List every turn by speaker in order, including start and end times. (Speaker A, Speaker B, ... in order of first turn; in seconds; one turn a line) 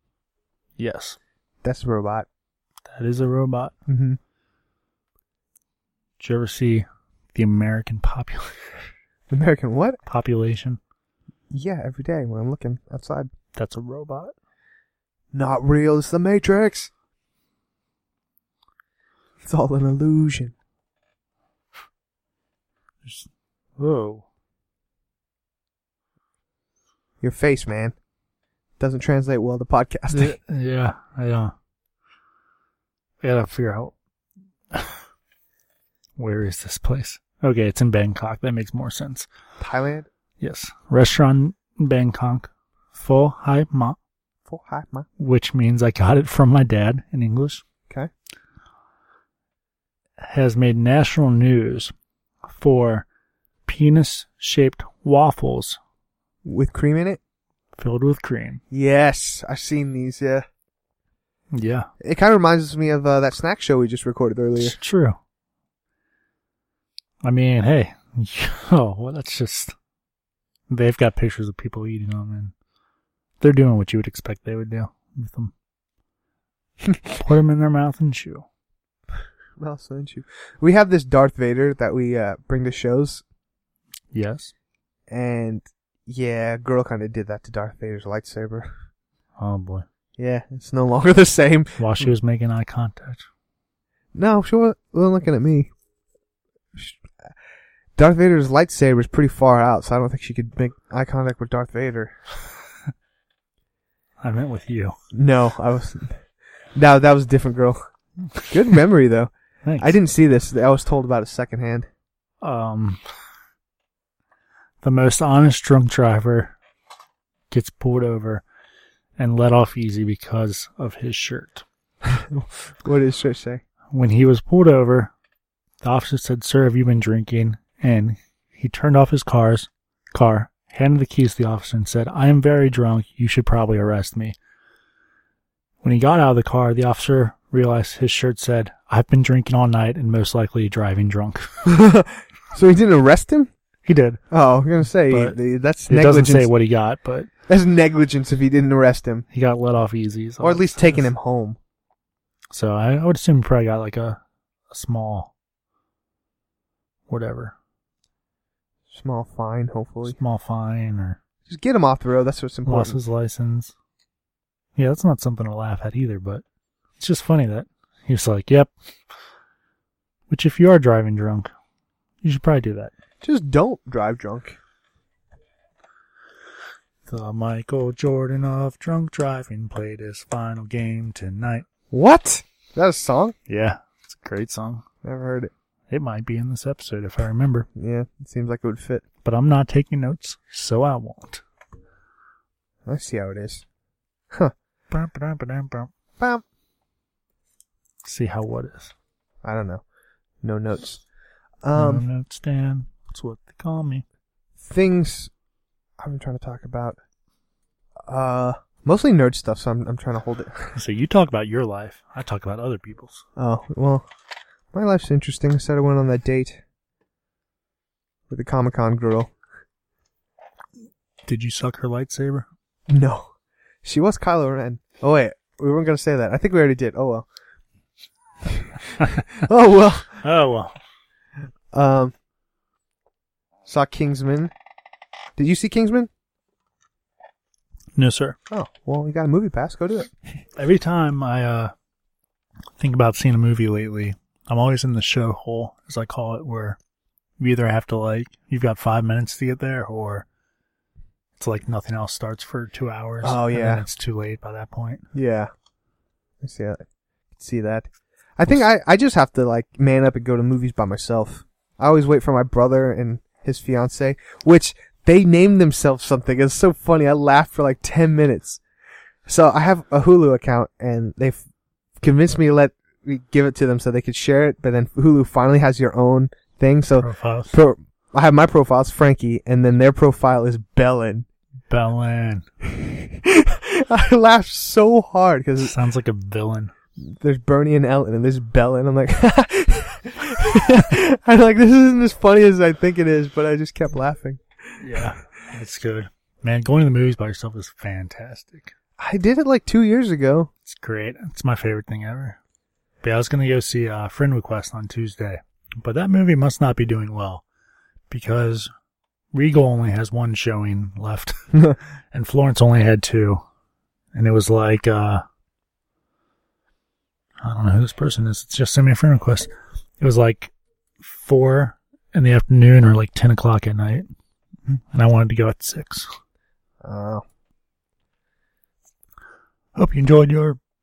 Speaker A: 0.8-1.2
Speaker B: 1.6-2.3
Speaker A: 2.9-3.7
Speaker B: 3.9-4.2
Speaker A: 6.2-8.5
Speaker B: 9.3-10.0
Speaker A: 10.1-10.8
Speaker B: 11.5-13.3
Speaker A: 13.6-14.3
Speaker B: 15.3-16.9
Speaker B: 19.4-20.5
Speaker A: 23.0-24.2
Speaker B: 27.2-27.9
Speaker B: 28.8-30.4
Speaker A: 30.1-31.5
Speaker A: 33.2-33.9
Speaker A: 34.7-35.0
Speaker A: 36.2-39.3
Speaker B: 39.6-40.1
Speaker A: 40.4-44.0
Speaker B: 44.5-45.1
Speaker A: 45.2-47.6
Speaker A: 50.2-51.9
Speaker A: 52.5-53.1
Speaker A: 53.7-55.8
Speaker B: 56.5-57.2
Speaker A: 57.8-58.6
Speaker B: 58.7-60.5
Speaker A: 61.5-61.9
Speaker B: 62.0-64.8
Speaker A: 64.6-65.2
Speaker A: 67.2-69.8
Speaker A: 70.7-72.5
Speaker A: 73.4-75.5
Speaker A: 77.1-78.5
Speaker B: 79.6-83.2
Speaker A: 84.1-84.5
Speaker B: 85.1-88.7
Speaker A: 89.4-89.9
Speaker B: 90.2-92.1
Speaker A: 91.8-93.3
Speaker B: 94.2-95.7
Speaker B: 96.8-97.0
Speaker B: 98.0-102.1
Speaker A: 104.2-104.9
Speaker B: 105.1-106.2
Speaker B: 106.8-107.8
Speaker B: 108.5-111.9
Speaker A: 109.7-110.0
Speaker A: 112.4-113.0
Speaker A: 114.8-116.6
Speaker A: 117.5-118.4
Speaker A: 119.2-121.7
Speaker B: 122.0-123.6
Speaker A: 123.9-125.1
Speaker A: 125.8-134.4
Speaker A: 135.8-141.5
Speaker B: 141.7-143.5
Speaker A: 143.8-144.2
Speaker B: 144.3-146.5
Speaker A: 145.1-147.3
Speaker B: 147.5-149.2
Speaker A: 149.3-151.1
Speaker B: 150.4-151.6
Speaker A: 152.5-154.2
Speaker A: 154.7-155.3
Speaker A: 157.1-157.6
Speaker B: 158.9-160.2
Speaker A: 160.1-161.2
Speaker B: 161.5-163.0
Speaker A: 162.7-163.7
Speaker A: 164.8-166.4
Speaker A: 167.0-168.7
Speaker A: 170.3-171.5
Speaker A: 172.2-172.9
Speaker B: 173.2-174.6
Speaker A: 177.1-181.7
Speaker B: 181.9-183.3
Speaker A: 183.5-184.8
Speaker B: 185.0-185.5
Speaker A: 185.9-187.7
Speaker B: 187.8-189.0
Speaker A: 189.2-191.4
Speaker B: 192.9-193.6
Speaker A: 194.9-195.9
Speaker A: 198.0-198.9
Speaker B: 199.4-199.8
Speaker B: 200.4-201.0
Speaker B: 201.6-202.0
Speaker A: 201.8-204.0
Speaker B: 204.6-205.3
Speaker B: 206.0-207.0
Speaker B: 208.1-210.7
Speaker A: 210.7-213.2
Speaker B: 213.4-214.1
Speaker B: 214.7-216.6
Speaker B: 218.3-219.3
Speaker A: 221.3-222.5
Speaker B: 222.9-223.3
Speaker B: 223.8-227.3
Speaker B: 228.4-230.2
Speaker A: 230.2-230.8
Speaker B: 231.7-232.1
Speaker B: 233.7-234.5
Speaker B: 235.4-236.1
Speaker A: 238.0-238.4
Speaker B: 238.5-240.1
Speaker A: 240.6-241.7
Speaker A: 242.8-246.8
Speaker A: 247.4-250.3
Speaker A: 251.4-255.1
Speaker B: 253.2-253.8
Speaker B: 255.1-255.5
Speaker B: 256.4-256.8
Speaker B: 257.4-268.6
Speaker B: 269.3-271.4
Speaker B: 272.0-281.3
Speaker A: 277.0-277.6
Speaker A: 281.7-282.4
Speaker B: 282.6-285.8
Speaker A: 285.6-286.7
Speaker B: 287.0-294.4
Speaker A: 294.8-298.7
Speaker B: 299.0-300.5
Speaker A: 300.6-302.4
Speaker A: 303.0-307.4
Speaker A: 308.1-308.7
Speaker A: 309.3-311.4
Speaker A: 312.1-313.4
Speaker A: 314.1-315.2
Speaker A: 317.4-324.1
Speaker A: 324.9-326.1
Speaker B: 326.8-327.2
Speaker A: 329.8-330.6